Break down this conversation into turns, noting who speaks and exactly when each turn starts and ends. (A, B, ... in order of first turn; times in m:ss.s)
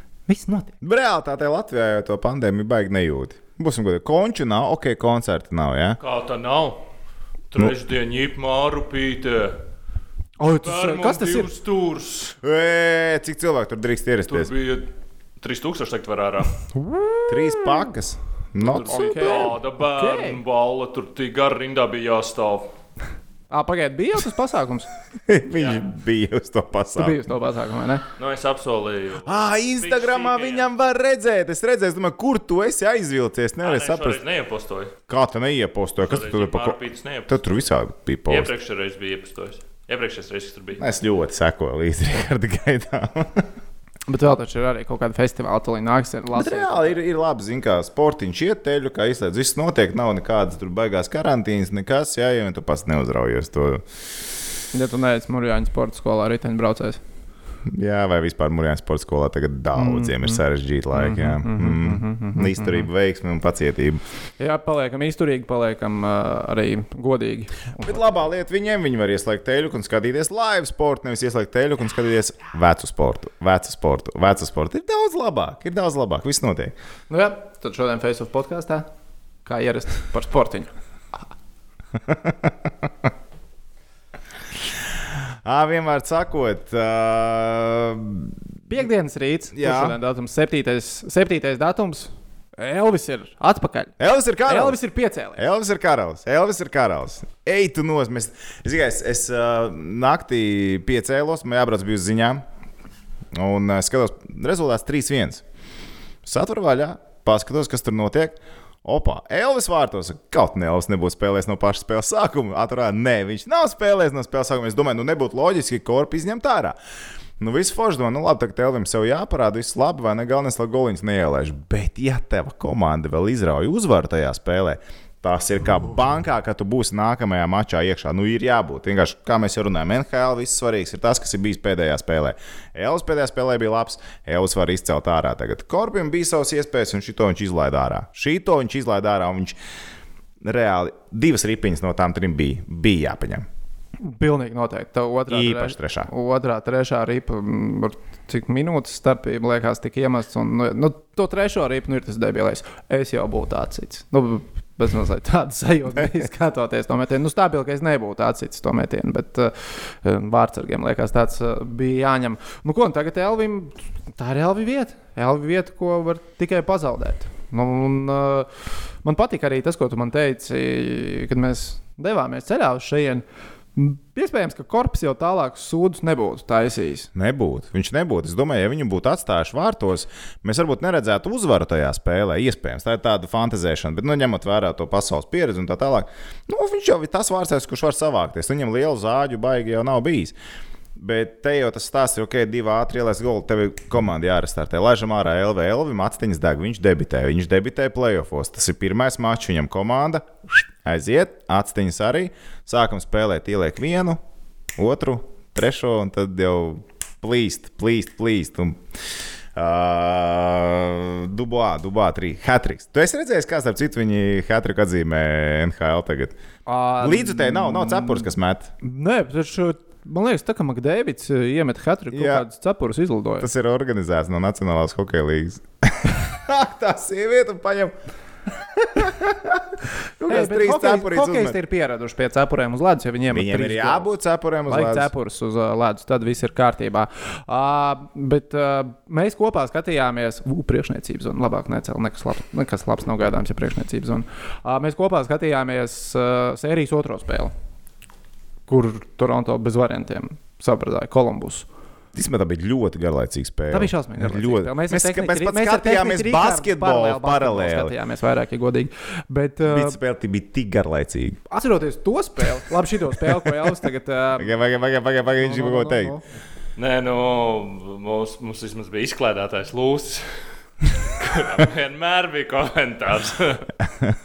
0:00.3-0:00.7 A
0:00.8-0:06.0 B
0:06.0-0:06.8 C
0:07.5-0:09.6 C
0:10.4-0:11.5 A
0:10.6-0:12.4 C
0:12.4-0:14.5 B
0:14.3-0:16.6 C
0:16.7-0:17.9 A
0:17.3-0:19.6 B
0:18.7-0:20.4 A
0:18.7-0:22.7 C
0:23.5-0:24.9 A
0:25.3-0:27.2 B
0:25.5-0:25.8 C
0:27.0-0:28.0 A
0:28.2-0:30.7 C
0:29.2-0:34.2 B
0:33.6-0:35.0 C
0:35.1-0:38.5 B
0:36.1-0:37.4 C
0:38.3-0:40.8 C
0:40.8-0:43.4 B
0:44.1-0:46.9 A
0:46.3-0:53.8 B
0:54.7-0:57.0 A
0:57.6-1:04.0 B
0:59.8-1:00.4 A
1:00.9-1:02.8 A
1:04.4-1:08.2 A
1:07.8-1:16.7 B
1:17.1-1:18.9 A
1:19.4-1:20.7 A
1:22.1-1:22.5 B
1:25.4-1:28.3 B
1:28.7-1:35.4 A
1:29.5-1:30.0 B
1:34.0-1:34.8 B
1:35.4-1:42.4 B
1:43.3-1:45.4 B
1:46.2-1:56.8 B
1:57.4-2:19.6 B
2:20.4-2:23.4 B
2:24.0-2:48.5 A
2:25.3-2:26.1 B
2:49.0-2:53.2 A
2:53.8-2:57.1 A
2:57.1-3:10.3 B
3:11.0-3:24.2 B
3:24.8-3:28.8 B
3:29.5-3:36.4 B
3:36.7-3:38.3 A
3:37.0-3:38.7 B
3:38.8-3:43.5 A
3:42.1-3:42.4 B
3:43.4-3:47.9 B
3:48.8-3:49.7 B
3:50.2-3:51.6 B
3:50.3-3:54.1 A
3:53.3-3:55.1 B
3:54.7-4:07.5 A
4:08.7-4:11.7 A
4:12.2-4:17.9 B
4:13.7-4:20.0 A
4:19.7-4:21.4 B
4:21.5-4:24.5 A
4:24.4-4:26.1 B
4:25.4-4:26.2 A
4:26.8-4:33.7 C